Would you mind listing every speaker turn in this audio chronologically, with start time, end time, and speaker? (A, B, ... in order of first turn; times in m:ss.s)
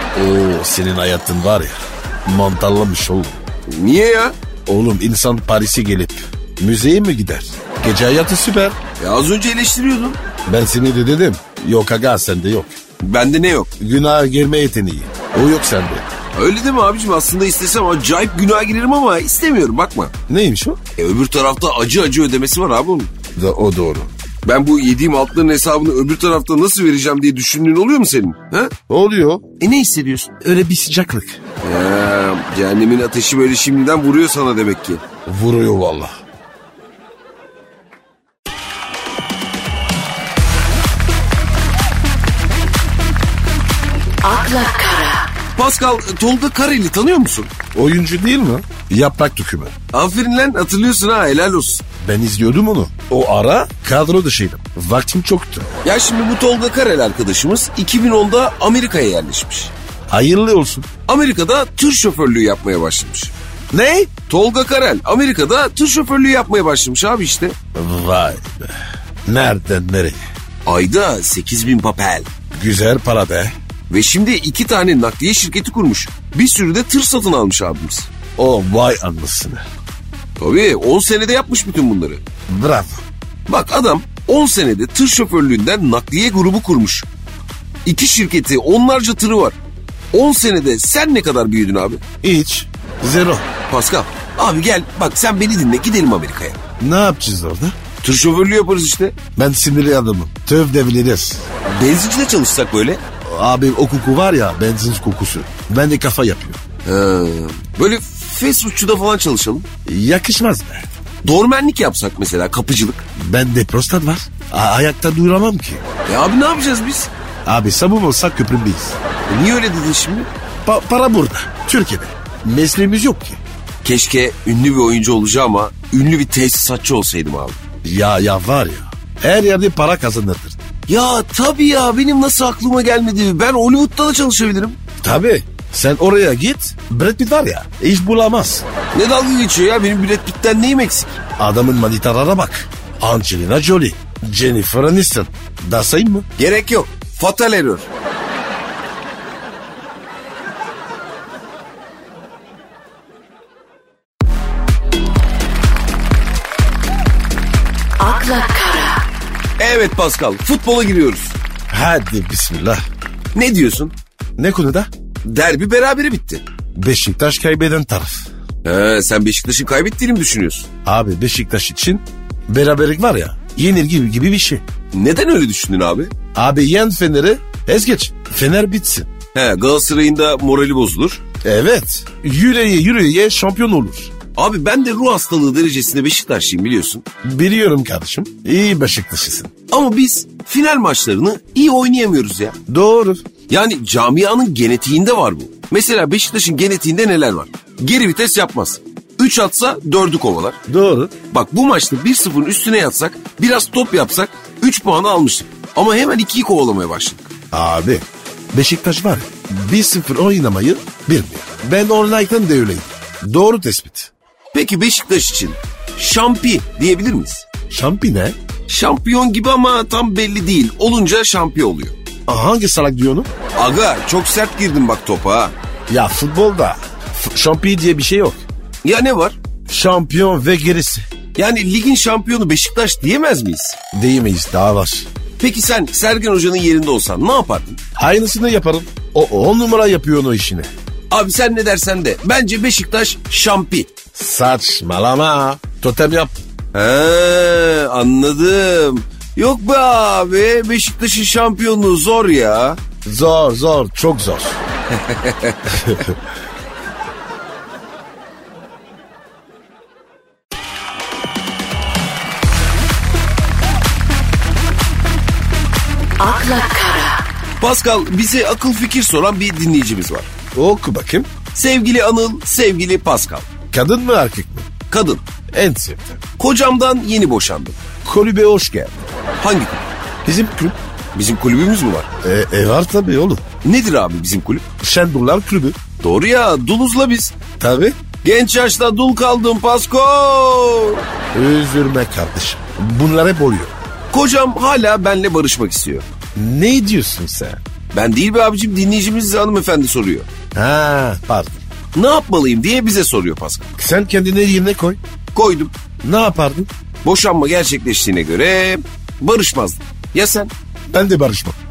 0:00.1-0:03.4 A
0:03.7-0:04.4 B
0:04.6-0:08.8 A
0:09.0-0:10.2 B
0:10.4-0:12.7 A
0:13.0-0:13.7 B
0:13.8-0:16.1 A
0:16.3-0:20.1 B
0:20.3-0:20.8 A
0:21.0-0:23.1 B
0:23.4-0:24.1 A
0:24.4-0:28.7 B
0:28.9-0:29.4 A
0:29.6-0:30.3 B
0:30.4-0:31.4 A
0:31.6-0:35.0 B
0:35.2-0:36.2 A
0:44.2-0:45.2 C
0:45.6-0:47.5 B
0:47.7-0:49.7 A
0:49.9-0:51.8 B
0:52.0-0:55.7 A
0:55.8-0:59.7 B
1:00.1-1:00.9 A
1:01.1-1:03.3 B
1:03.7-1:04.1 A
1:04.3-1:07.6 B
1:07.7-1:08.7 A
1:09.2-1:10.2 A
1:10.6-1:12.3 B
1:12.5-1:13.5 A
1:13.9-1:18.1 B
1:18.4-1:19.6 A
1:20.4-1:22.2 B
1:22.5-1:23.0 A
1:23.5-1:27.1 B
1:27.8-1:29.6 B
1:30.1-1:32.0 B
1:32.2-1:33.4 A
1:33.7-1:36.6 B
1:36.8-1:37.8 A
1:38.0-1:39.2 B
1:39.4-1:41.4 A
1:41.6-1:43.0 B
1:43.3-1:46.6 A
1:46.8-1:49.6 B
1:49.8-1:50.9 A
1:51.2-1:53.0 B
1:53.2-1:55.8 A
1:56.1-1:57.1 B
1:57.4-1:59.0 A
1:59.3-2:00.3 B
2:00.6-2:03.4 A
2:03.8-2:07.6 B
2:07.8-2:10.6 A
2:10.9-2:14.8 B
2:15.0-2:18.6 A
2:18.9-2:21.2 B
2:21.4-2:26.2 A
2:26.4-2:27.9 B
2:38.0-2:38.9 C
2:39.6-2:41.3 B
2:41.7-2:42.8 A
2:43.3-2:43.9 B
2:44.4-2:44.9 A
2:45.2-2:46.4 B
2:46.7-2:48.3 A
2:48.6-2:50.7 B
2:50.8-2:54.6 A
2:54.9-2:56.1 B
2:56.3-2:59.1 A
2:59.3-3:01.2 B
3:01.4-3:04.1 A
3:04.4-3:07.0 B
3:07.2-3:09.5 A
3:09.7-3:12.6 B
3:12.7-3:13.2 A
3:13.5-3:20.6 B
3:20.7-3:21.1 A
3:21.3-3:27.3 B
3:27.5-3:34.1 A
3:34.5-3:37.5 B
3:37.7-3:38.4 A
3:38.7-3:42.0 B
3:42.3-3:43.3 A
3:43.5-3:45.5 B
3:45.9-3:48.4 A
3:48.8-3:49.4 B
3:49.7-3:51.0 A
3:51.4-3:53.8 B
3:53.9-3:55.1 A
3:55.4-3:57.8 B
3:58.0-4:00.7 A
4:01.1-4:03.9 B
4:04.1-4:06.4 A
4:06.7-4:12.8 B
4:13.0-4:14.6 A
4:14.9-4:15.6 B
4:15.7-4:16.1 A
4:26.2-4:27.2 C
4:27.6-4:30.3 B
4:30.5-4:31.3 A
4:31.5-4:33.5 B
4:33.7-4:34.7 A
4:34.9-4:35.2 B
4:35.5-4:36.2 A
4:36.4-4:37.8 B
4:38.0-4:39.0 A
4:39.4-4:39.8 B
4:40.2-4:40.8 A
4:41.1-4:42.1 B
4:42.2-4:43.4 A
4:43.6-4:44.6 B
4:44.8-4:45.8 A
4:46.0-4:47.3 B
4:47.6-4:48.0 A
4:48.2-4:51.0 B
4:51.3-4:53.7 A
4:54.1-4:56.0 B
4:56.4-4:57.6 A
4:57.9-5:00.3 B
5:00.5-5:01.6 A
5:01.9-5:03.7 B
5:03.8-5:05.0 A
5:05.3-5:05.7 B
5:06.0-5:06.7 A
5:07.0-5:10.5 B
5:10.9-5:11.6 A